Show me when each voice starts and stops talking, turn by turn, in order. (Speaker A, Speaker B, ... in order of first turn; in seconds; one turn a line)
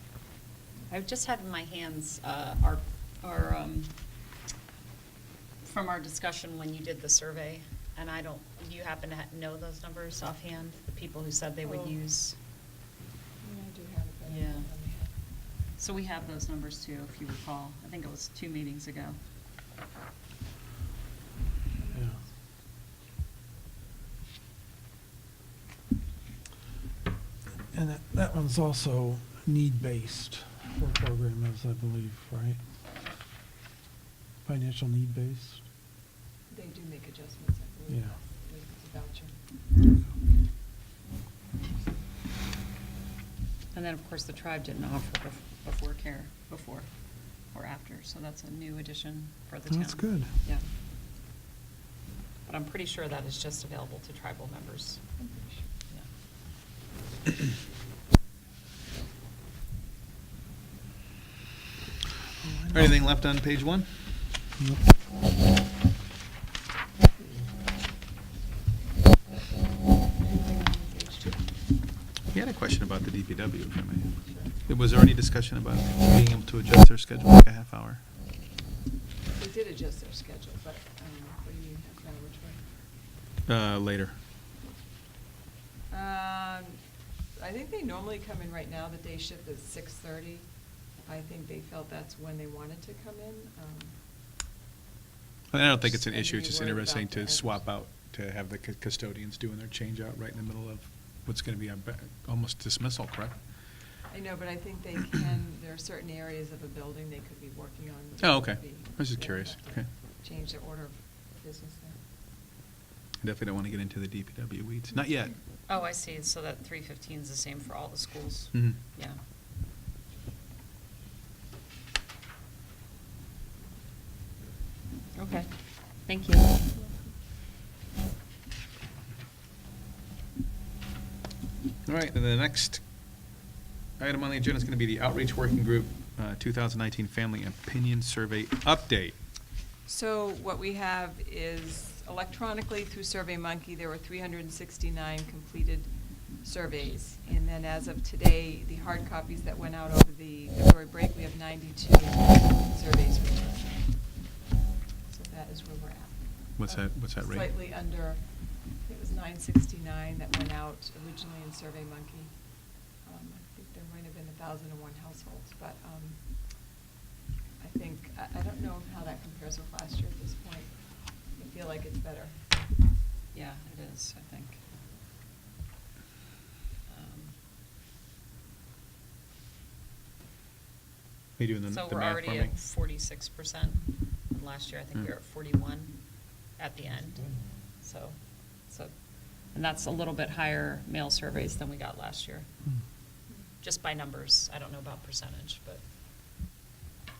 Speaker A: 0.9-3.9
Speaker A: 5.6-12.3
Speaker B: 11.6-11.9
Speaker B: 13.4-15.1
Speaker A: 14.2-14.7
Speaker A: 15.8-19.2
Speaker B: 21.8-22.3
Speaker C: 27.7-32.6
Speaker C: 34.4-35.6
Speaker B: 36.5-39.3
Speaker C: 37.9-38.1
Speaker A: 43.7-46.9
Speaker A: 47.4-50.6
Speaker C: 49.7-50.3
Speaker A: 52.5-55.0
Speaker B: 55.2-55.7
Speaker C: 62.4-62.9
Speaker D: 62.7-64.0
Speaker C: 64.6-64.8
Speaker B: 70.2-71.5
Speaker D: 72.3-78.0
Speaker B: 74.2-74.5
Speaker B: 79.3-82.6
Speaker D: 83.5-84.2
Speaker B: 85.9-94.0
Speaker D: 95.5-103.5
Speaker B: 95.6-97.7
Speaker B: 104.1-112.0
Speaker D: 108.2-109.9
Speaker D: 113.2-115.4
Speaker A: 115.7-119.2
Speaker D: 118.5-118.8
Speaker A: 125.1-126.6
Speaker B: 126.7-127.1
Speaker D: 131.8-132.8
Speaker D: 134.0-139.2
Speaker B: 139.8-154.2
Speaker B: 155.1-166.8
Speaker D: 156.6-157.5
Speaker B: 167.6-172.4
Speaker A: 173.3-174.6
Speaker A: 176.9-177.3
Speaker D: 181.4-182.6
Speaker A: 181.7-188.9
Speaker A: 189.5-192.5
Speaker A: 193.6-195.8